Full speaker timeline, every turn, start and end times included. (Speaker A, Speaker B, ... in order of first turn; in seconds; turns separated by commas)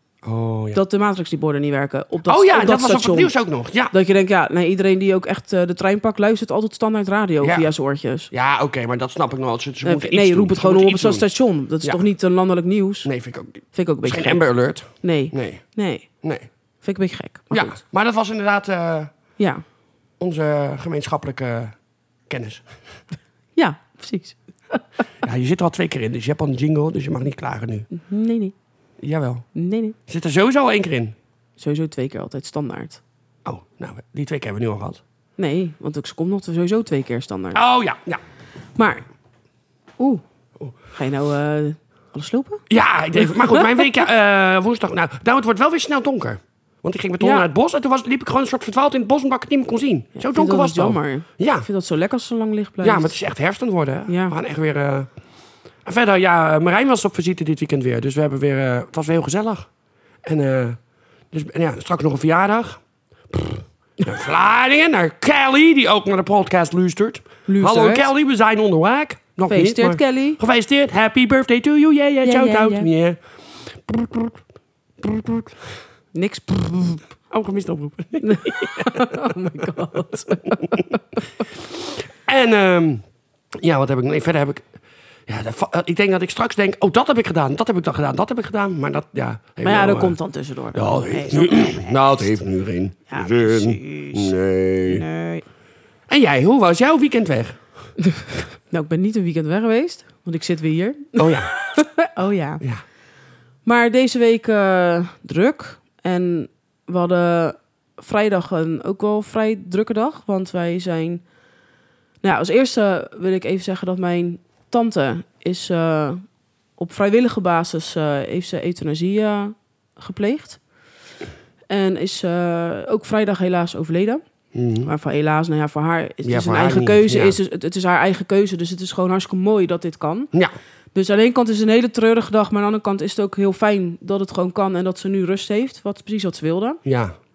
Speaker A: 0.2-0.8, Speaker B: 0.7-3.3, Speaker A: 2.2-3.9, Speaker B: 3.9-8.3, Speaker A: 7.4-7.7, Speaker A: 8.3-11.3, Speaker B: 9.8-13.1, Speaker A: 13.0-15.6, Speaker B: 13.7-14.4, Speaker B: 15.0-16.1, Speaker A: 16.2-16.5, Speaker B: 16.8-17.8, Speaker A: 17.5-19.1, Speaker B: 19.4-19.6, Speaker A: 20.2-21.7, Speaker A: 22.3-22.7, Speaker B: 23.6-24.8, Speaker A: 25.2-27.9, Speaker B: 27.9-28.5, Speaker A: 29.0-29.4, Speaker B: 29.5-29.9, Speaker A: 30.1-31.1, Speaker B: 31.6-33.0, Speaker A: 33.4-35.0, Speaker B: 35.4-37.6, Speaker A: 37.5-38.2, Speaker B: 38.8-39.0, Speaker B: 40.9-43.9, Speaker A: 42.7-51.7, Speaker B: 47.2-47.5, Speaker B: 50.2-53.1, Speaker A: 52.8-55.1, Speaker B: 54.1-54.4, Speaker A: 55.8-59.7, Speaker A: 60.2-60.8, Speaker A: 61.3-74.4, Speaker B: 67.5-68.1, Speaker B: 69.5-70.4, Speaker B: 72.2-72.9, Speaker A: 75.0-75.8, Speaker B: 76.1-77.1, Speaker A: 77.3-79.8, Speaker B: 78.2-81.4, Speaker A: 80.4-80.8, Speaker A: 81.5-83.0, Speaker A: 83.5-84.7, Speaker A: 85.3-90.2, Speaker B: 89.6-92.0, Speaker A: 90.7-95.0, Speaker B: 93.1-94.3, Speaker B: 94.9-95.5, Speaker A: 96.1-97.6, Speaker B: 98.0-102.6, Speaker A: 101.2-101.5, Speaker B: 103.6-111.2, Speaker B: 112.2-116.2, Speaker B: 116.8-120.6, Speaker B: 121.7-124.2, Speaker A: 124.5-124.9, Speaker B: 124.8-130.3, Speaker A: 126.2-127.4, Speaker B: 130.9-136.8, Speaker A: 136.8-137.1